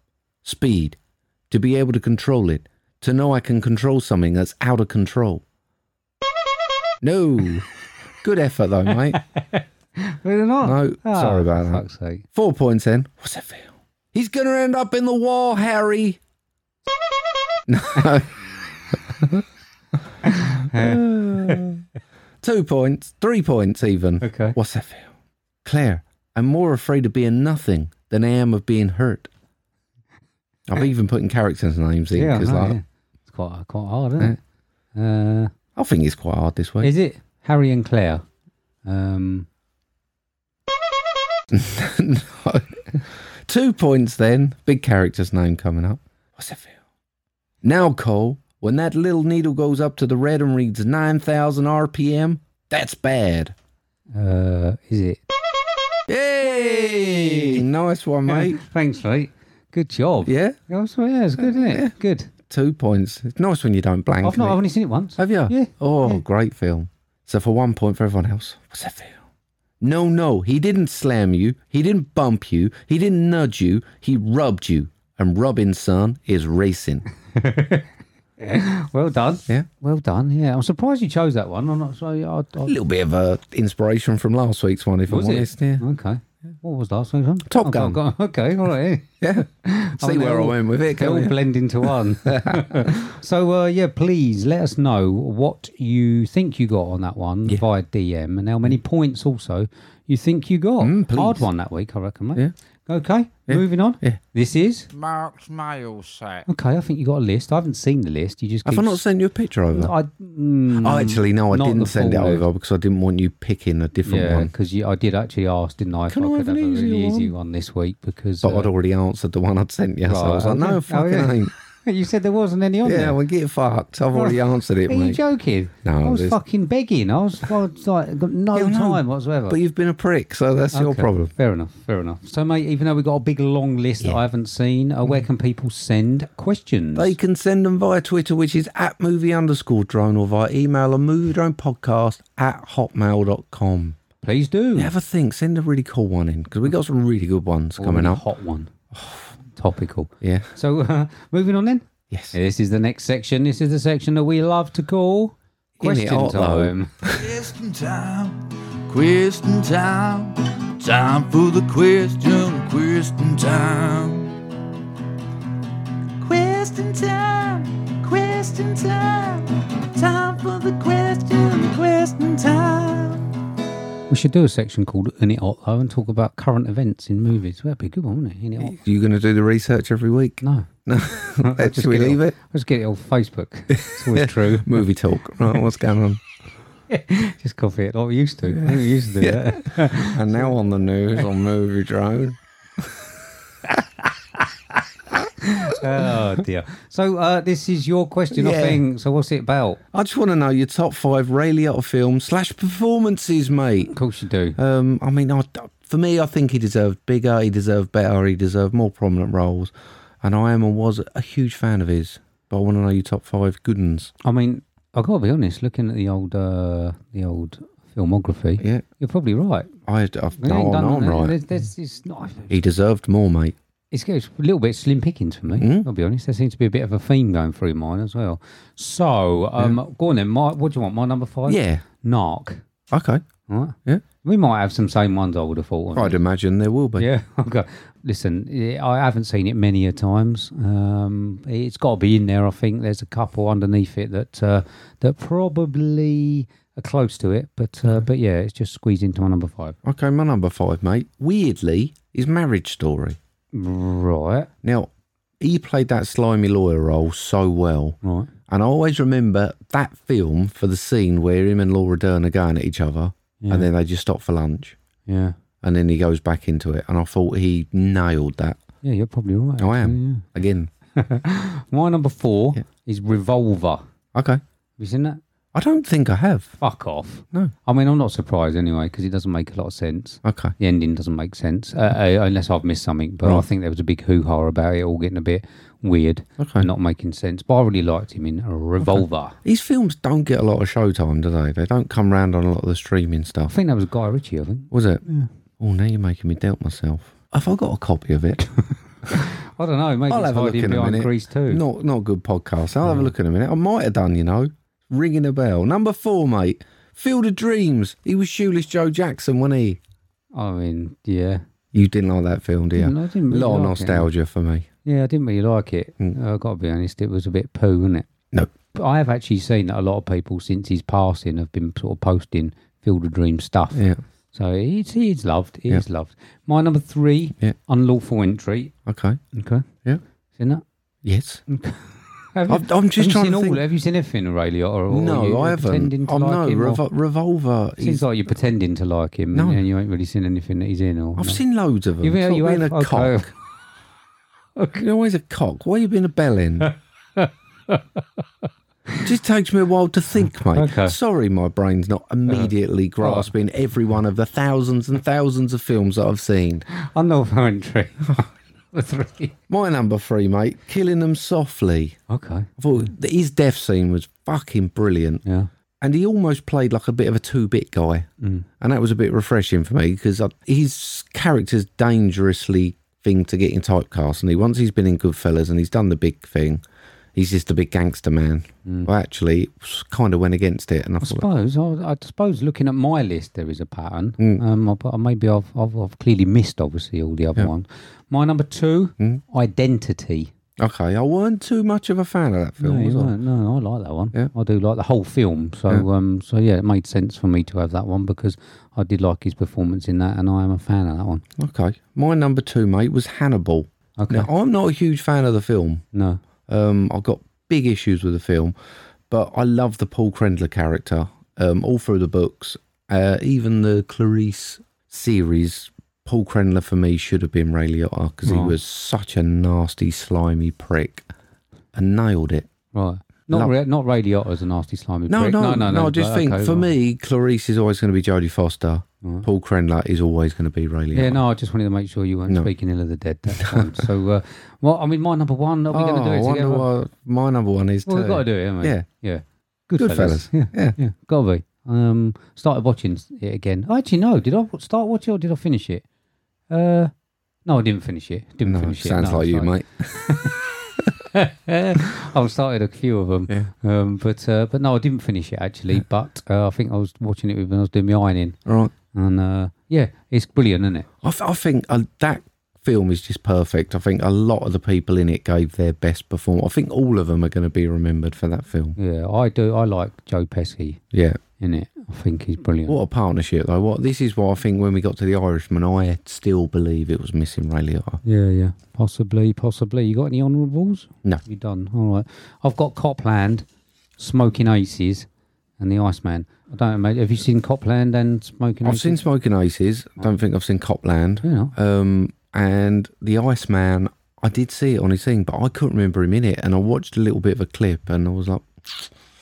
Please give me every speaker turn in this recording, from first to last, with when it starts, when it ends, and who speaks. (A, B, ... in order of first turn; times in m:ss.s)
0:00.4-0:01.0 A
0:01.5-0:05.4 A
0:07.0-0:07.7 A
0:08.2-0:09.2 A
0:09.1-0:12.2 B
0:10.6-0:16.2 A
0:17.7-0:18.3 A
0:20.2-0:21.6 B
0:20.7-0:21.8 A
0:22.4-0:25.1 A
0:24.2-0:24.6 B
0:25.6-0:29.3 A
0:30.7-0:32.8 A
0:32.1-0:34.4 B
0:34.9-0:35.5 B
0:35.8-0:36.9 A
0:36.8-0:38.2 B
0:38.8-0:39.5 B
0:41.5-0:46.7 A
0:47.6-0:53.5 A
0:54.1-0:55.2 B
0:56.1-0:58.6 A
0:56.4-0:57.6 B
0:58.3-1:02.3 B
1:00.3-1:00.6 A
1:01.4-1:01.9 A
1:02.5-1:04.6 A
1:04.2-1:06.2 B
1:05.2-1:09.2 A
1:09.8-1:17.0 A
1:17.3-1:22.7 B
1:22.6-1:25.8 A
1:25.1-1:44.9 B
1:27.5-1:28.0 A
1:29.2-1:31.4 A
1:32.3-1:32.8 A
1:40.8-1:41.5 A
1:43.5-1:44.2 A
1:44.9-1:46.5 C
1:46.5-1:49.0 B
1:48.6-1:49.9 A
1:49.7-1:52.5 B
1:50.7-1:54.5 A
1:54.0-1:58.7 B
1:56.1-1:57.3 A
1:58.4-2:01.5 A
2:00.0-2:03.2 B
2:02.8-2:05.2 A
2:04.1-2:09.6 B
2:05.8-2:06.4 A
2:08.5-2:11.3 A
2:10.7-2:17.2 B
2:17.0-2:24.0 A
2:24.2-2:24.9 B
2:24.8-2:28.2 A
2:27.8-2:28.7 B
2:28.9-2:29.3 A
2:29.5-2:36.9 B
2:30.2-2:30.5 A
2:32.1-2:32.4 A
2:35.8-2:37.2 A
2:37.1-2:44.4 C
2:46.3-2:46.7 B
2:46.3-2:49.4 C
2:48.3-2:48.6 B
2:50.0-2:50.3 B
2:50.0-2:53.0 C
2:51.1-2:52.0 B
2:52.6-2:53.1 B
2:54.1-2:58.8 B
2:58.6-3:02.4 A
3:00.4-3:00.7 B
3:01.4-3:04.8 B
3:03.7-3:06.2 A
3:06.9-3:10.5 B
3:08.5-3:12.4 A
3:15.4-3:19.8 B
3:18.3-3:18.8 A
3:19.9-3:23.9 A
3:23.9-3:24.6 B
3:24.6-3:34.1 A
3:34.2-3:39.7 B
3:39.9-3:41.4 A
3:40.4-3:42.6 B
3:42.5-3:43.6 A
3:43.9-3:52.6 B
3:45.6-3:45.9 A
3:51.5-3:51.8 A
3:52.9-3:53.2 A
3:53.5-3:56.2 B
3:55.9-3:57.1 A
3:57.0-4:09.8 B
4:09.8-4:13.2 A
4:13.5-4:14.5 B
4:14.6-4:14.9 A
4:15.4-4:18.0 A
4:18.0-4:18.3 B
4:18.5-4:24.8 A
4:23.4-4:23.7 B
4:25.1-4:25.4 B
4:25.6-4:28.6 A
4:28.8-4:30.3 B
4:29.6-4:30.7 A
4:31.0-4:33.8 B
4:34.1-4:34.4 A
4:34.8-4:35.2 B
4:35.5-4:36.6 A
4:36.6-4:49.4 B
4:40.2-4:40.5 A
4:46.4-4:46.7 A
4:48.8-4:53.5 A
4:53.5-4:55.3 B
4:54.7-4:55.0 A
4:55.6-4:58.4 A
4:59.1-5:01.6 B
5:00.1-5:09.8 A
5:02.8-5:03.1 B
5:10.3-5:11.4 B
5:11.7-5:14.7 A
5:12.8-5:14.1 B
5:14.8-5:18.1 B
5:18.7-5:28.8 B
5:23.7-5:24.0 A
5:28.9-5:29.2 A
5:29.3-5:29.7 B
5:30.4-5:30.6 B
5:31.0-5:31.4 A
5:31.5-5:36.8 B
5:32.5-5:33.6 A
5:34.9-5:38.0 A
5:37.8-5:41.4 B
5:39.3-5:39.6 A
5:41.2-5:43.3 A
5:42.0-5:43.3 B
5:44.6-5:44.8 B
5:44.8-5:46.7 A
5:46.6-5:48.0 B
5:49.0-5:56.7 A
5:50.5-5:51.0 B
5:52.3-5:53.3 B
5:56.7-5:59.4 B
5:59.5-6:02.0 A
6:02.1-6:02.9 B
6:02.6-6:05.2 A
6:05.2-6:05.5 B
6:05.8-6:08.1 A
6:08.2-6:08.5 B
6:08.6-6:16.6 A
6:17.2-6:21.3 A
6:21.0-6:30.3 B
6:30.6-6:33.1 A
6:32.6-6:41.2 B
6:41.4-6:45.8 A
6:44.0-6:44.3 B
6:45.9-6:46.2 B
6:46.5-6:48.6 A
6:49.1-7:01.1 A
6:58.2-6:58.6 B
7:01.7-7:02.5 A
7:02.7-7:06.7 B
7:05.1-7:11.2 A
7:10.9-7:16.7 B
7:13.4-7:13.8 A
7:15.7-7:18.9 A
7:17.9-7:25.8 B
7:19.8-7:20.8 A
7:26.5-7:26.9 B
7:27.4-7:30.3 B
7:28.4-7:30.1 A
7:31.1-7:38.4 B
7:38.5-7:38.7 A
7:38.9-7:40.9 B
7:41.0-7:48.8 A
7:48.8-7:50.8 B
7:50.9-7:51.2 A
7:51.4-7:52.8 B
7:52.7-7:58.0 A
7:58.0-8:03.4 B
8:04.0-8:05.1 B
8:05.6-8:09.0 B
8:08.6-8:18.9 A
8:11.2-8:11.5 B